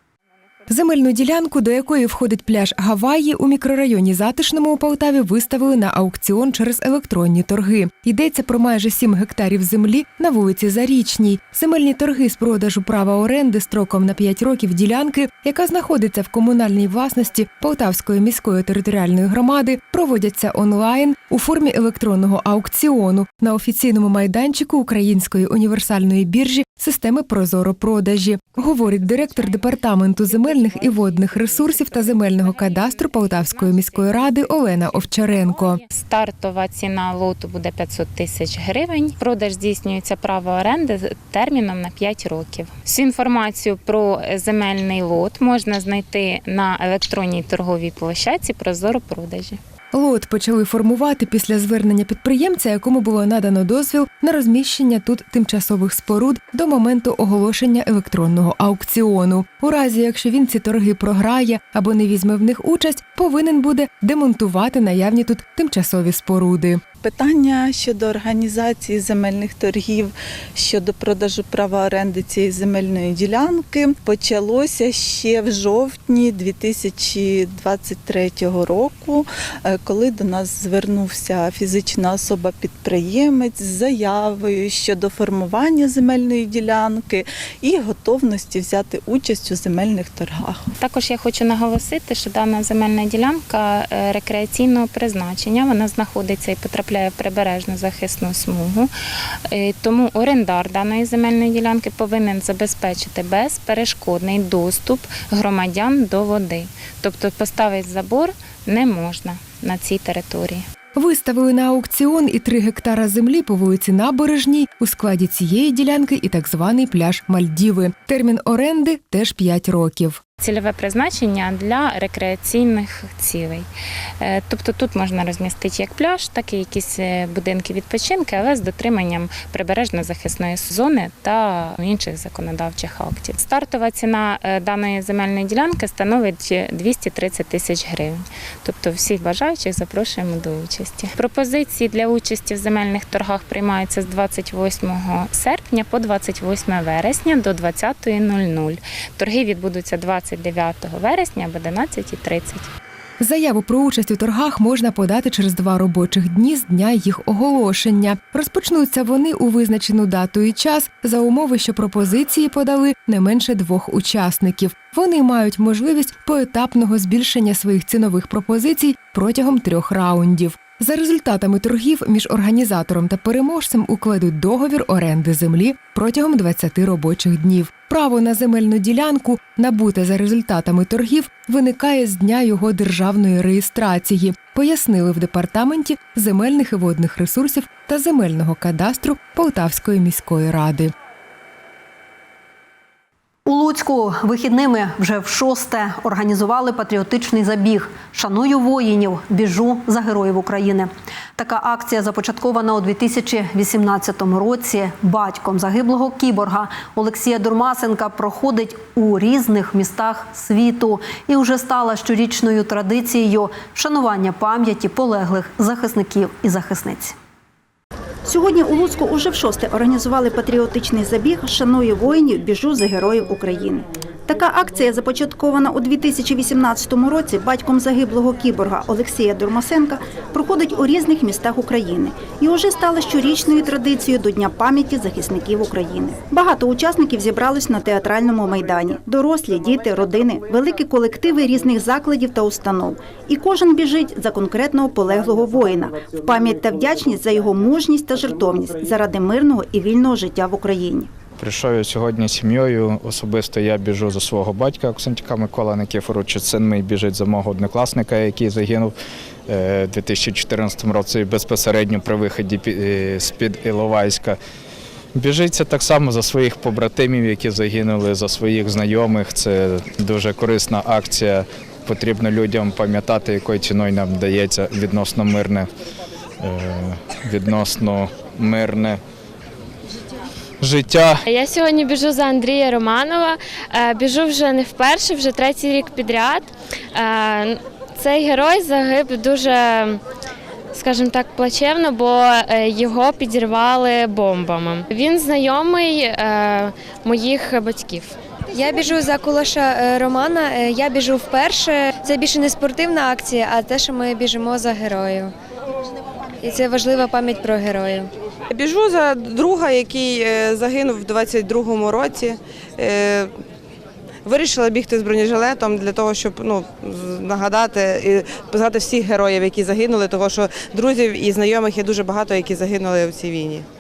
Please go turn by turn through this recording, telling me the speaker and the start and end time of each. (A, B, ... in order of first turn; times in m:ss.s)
0:00.7-0:35.8 A
0:28.8-0:49.6 B
0:49.9-1:06.8 A
1:07.0-1:30.7 C
1:30.8-1:38.9 B
1:39.5-1:50.6 B
1:51.0-2:00.2 A
2:00.4-2:03.7 B
2:04.2-2:32.7 B
2:33.2-3:10.9 A
3:13.5-3:37.2 D
3:38.2-4:11.1 E
4:11.4-4:18.9 F
4:19.5-4:24.4 F
4:25.2-4:35.7 F
4:36.4-4:39.0 F
4:40.6-4:41.2 F
4:41.3-4:50.0 G
4:50.7-4:58.2 G
4:58.5-5:05.3 H
5:06.4-5:08.1 H
5:08.5-5:13.3 I
5:14.3-5:23.6 I